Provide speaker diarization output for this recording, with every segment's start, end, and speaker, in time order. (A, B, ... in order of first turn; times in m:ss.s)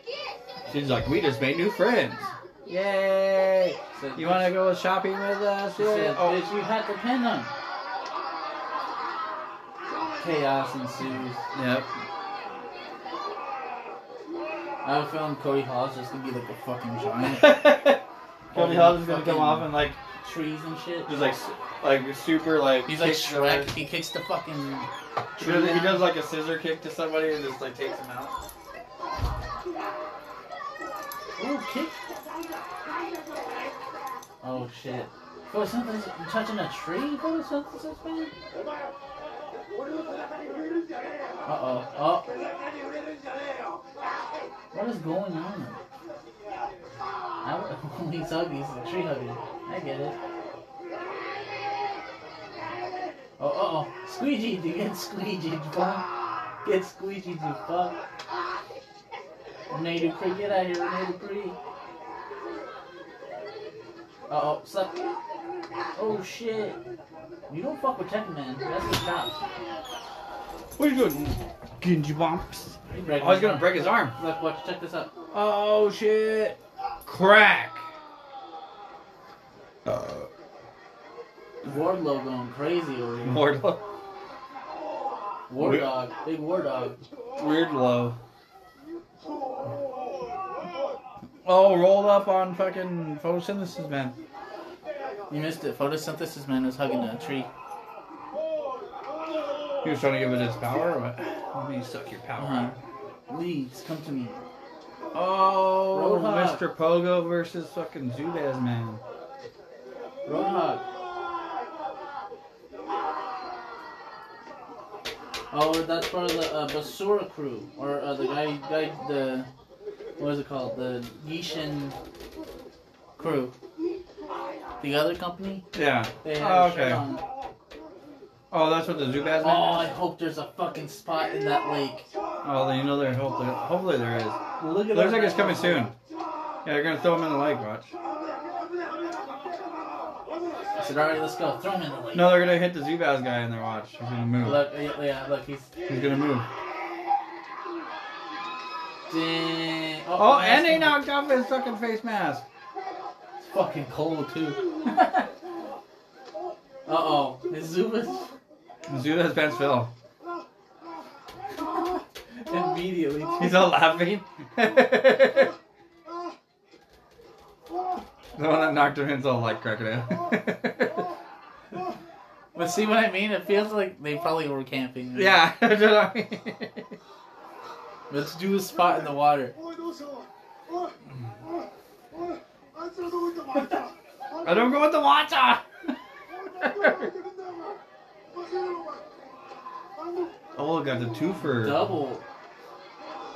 0:00.6-0:06.4 A
0:04.0-0:04.5 B
0:05.8-0:07.5 B
0:10.2-0:11.4 B
0:11.5-0:11.9 A
0:14.8-0:17.6 B
0:17.3-0:20.0 A
0:18.5-0:21.4 B
0:21.0-0:23.7 A
0:22.8-0:26.1 B
0:25.4-0:28.3 A
0:31.4-0:31.9 B
0:34.4-0:38.3 B
0:41.4-0:42.3 B
0:44.7-0:45.8 B
0:47.4-0:50.2 B
0:53.4-0:56.0 B
0:56.6-0:58.0 B
0:59.7-1:01.6 B
1:04.3-1:05.0 B
1:06.0-1:06.8 B
1:07.5-1:09.4 B
1:10.8-1:14.1 A
1:12.9-1:15.1 B
1:15.3-1:17.8 A
1:19.9-1:20.2 A
1:21.6-1:23.4 B
1:23.2-1:23.8 A
1:25.5-1:27.0 B
1:25.6-1:25.9 A
1:27.4-1:28.2 A
1:31.4-1:34.2 A
1:35.3-1:37.5 B
1:39.8-1:42.8 A
1:42.4-1:42.7 B
1:43.3-1:44.4 B
1:45.1-1:49.0 A
1:45.9-1:46.6 B
1:50.2-1:50.8 B
1:55.5-1:59.5 B
2:00.2-2:02.0 B
2:03.2-2:03.5 B
2:04.8-2:05.6 B
2:05.7-2:07.0 A
2:06.2-2:07.2 B
2:08.5-2:09.9 A
2:09.4-2:12.1 B
2:12.4-2:15.9 A
2:14.6-2:15.9 B
2:16.6-2:17.9 A
2:20.8-2:22.4 B
2:22.1-2:24.6 A
2:24.4-2:25.7 B
2:25.9-2:26.4 A
2:29.1-2:31.0 B
2:30.2-2:32.4 A
2:33.4-2:35.3 B
2:36.8-2:38.3 B
2:38.9-2:39.9 A
2:41.6-2:43.7 B
2:43.4-2:45.5 A
2:48.4-2:51.1 A
2:52.5-2:55.4 B
2:55.2-2:56.9 A
2:58.1-2:59.5 B
2:59.7-3:00.2 C
3:02.7-3:03.9 C
3:04.4-3:05.6 A
3:06.6-3:07.6 C
3:06.6-3:07.1 A
3:08.4-3:09.0 C
3:10.6-3:11.9 A
3:11.4-3:12.2 B